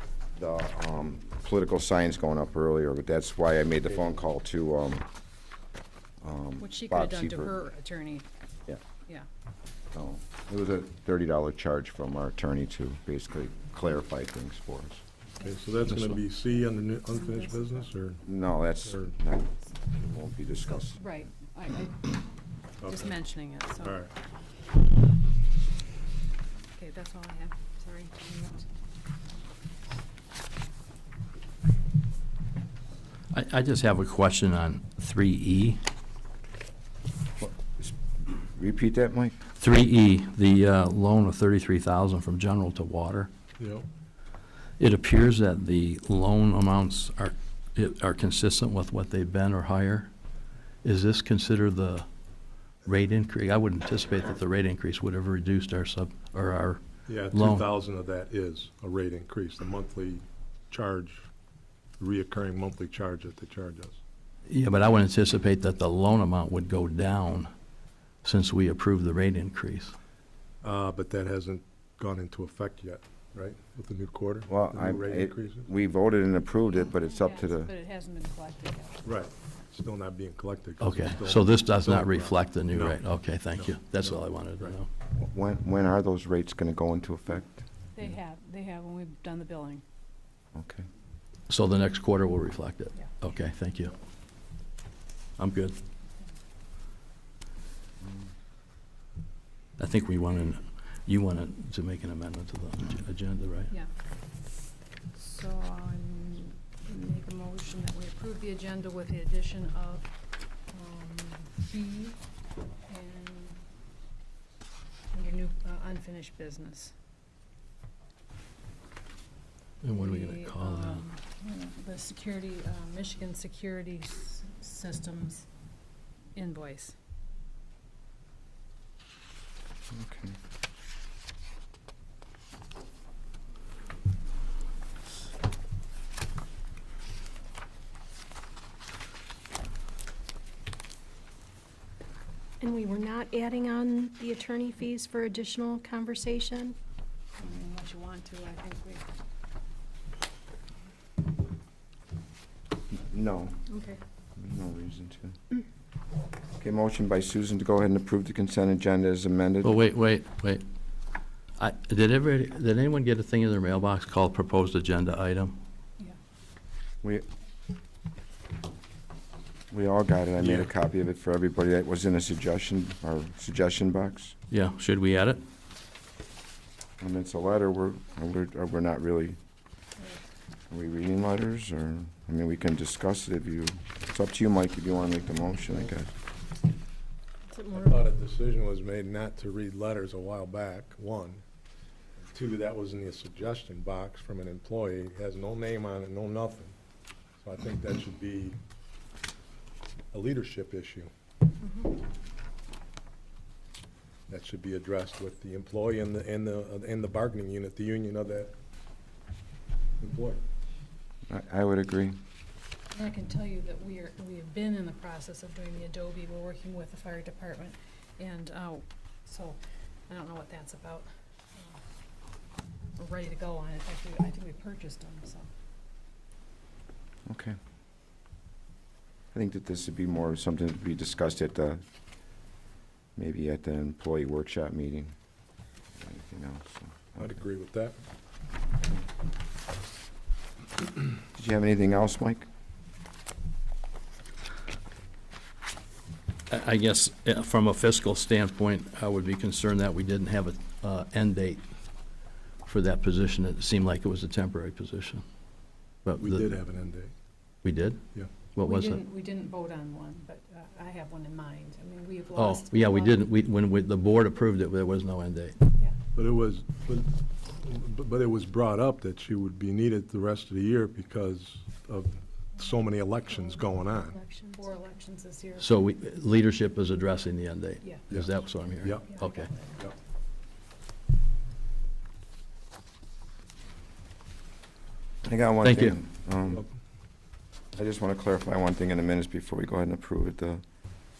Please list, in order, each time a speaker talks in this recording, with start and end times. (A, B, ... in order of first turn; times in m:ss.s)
0:00.4-0:05.0 A
0:06.2-0:07.5 A
0:06.6-0:08.3 B
0:09.9-0:15.0 A
0:15.4-0:18.2 C
0:17.1-0:17.9 B
0:18.2-0:21.0 A
0:18.8-0:19.1 C
0:20.6-0:22.2 B
0:22.8-0:23.2 C
0:22.8-0:24.0 B
0:23.8-0:24.1 C
0:26.7-0:28.6 B
0:33.3-0:35.8 D
0:37.4-0:39.3 A
0:39.6-0:43.3 D
0:43.6-0:43.8 C
0:44.8-0:50.1 D
0:50.8-0:52.1 D
0:52.8-0:57.6 D
0:57.1-1:01.3 C
1:02.0-1:04.0 C
1:04.5-1:07.5 D
1:08.2-1:09.9 D
1:10.6-1:15.6 C
1:14.5-1:17.7 A
1:17.0-1:19.1 B
1:19.0-1:23.0 C
1:20.8-1:24.9 D
1:23.6-1:24.7 C
1:25.1-1:28.1 A
1:27.9-1:29.8 B
1:30.5-1:30.8 A
1:31.5-1:33.9 D
1:35.4-1:35.8 D
1:39.8-1:43.7 D
1:45.1-1:50.1 B
1:50.7-1:52.2 B
1:52.9-1:53.6 B
1:55.1-1:56.9 B
1:59.8-2:01.0 D
1:59.9-2:05.5 B
2:06.3-2:07.0 B
2:09.9-2:10.4 A
2:22.6-2:26.8 E
2:27.4-2:29.0 B
2:32.9-2:33.6 A
2:33.7-2:34.0 B
2:34.4-2:35.4 A
2:36.6-2:39.8 A
2:39.6-2:40.6 D
2:41.6-2:45.6 D
2:49.7-2:54.4 A
2:50.4-2:50.7 C
2:54.5-2:55.4 D
2:57.0-2:59.4 A
3:00.7-3:06.1 A
3:07.5-3:08.0 B
3:07.7-3:11.4 C
3:12.2-3:16.7 C
3:17.4-3:18.6 C
3:20.1-3:21.1 C
3:24.3-3:28.5 C
3:30.0-3:30.4 C
3:31.3-3:32.2 A
3:32.9-3:41.8 B
3:43.0-3:45.5 B
3:47.3-3:47.6 A
3:49.3-3:51.8 A
3:53.2-3:55.1 A
3:55.9-3:57.3 A
3:57.2-3:58.0 C
4:01.3-4:02.5 A
4:06.5-4:11.6 D
4:12.6-4:15.2 D
4:16.0-4:16.5 D
4:16.2-4:17.1 C
4:17.6-4:18.0 D
4:18.5-4:19.0 D
4:18.6-4:23.2 B
4:22.4-4:25.6 D
4:26.1-4:34.2 C
4:33.4-4:34.9 E
4:34.6-4:35.7 B
4:35.6-4:39.5 D
4:38.1-4:39.1 C
4:39.0-4:39.9 B
4:45.2-4:46.6 A
4:45.6-4:46.0 D
4:47.8-4:50.6 A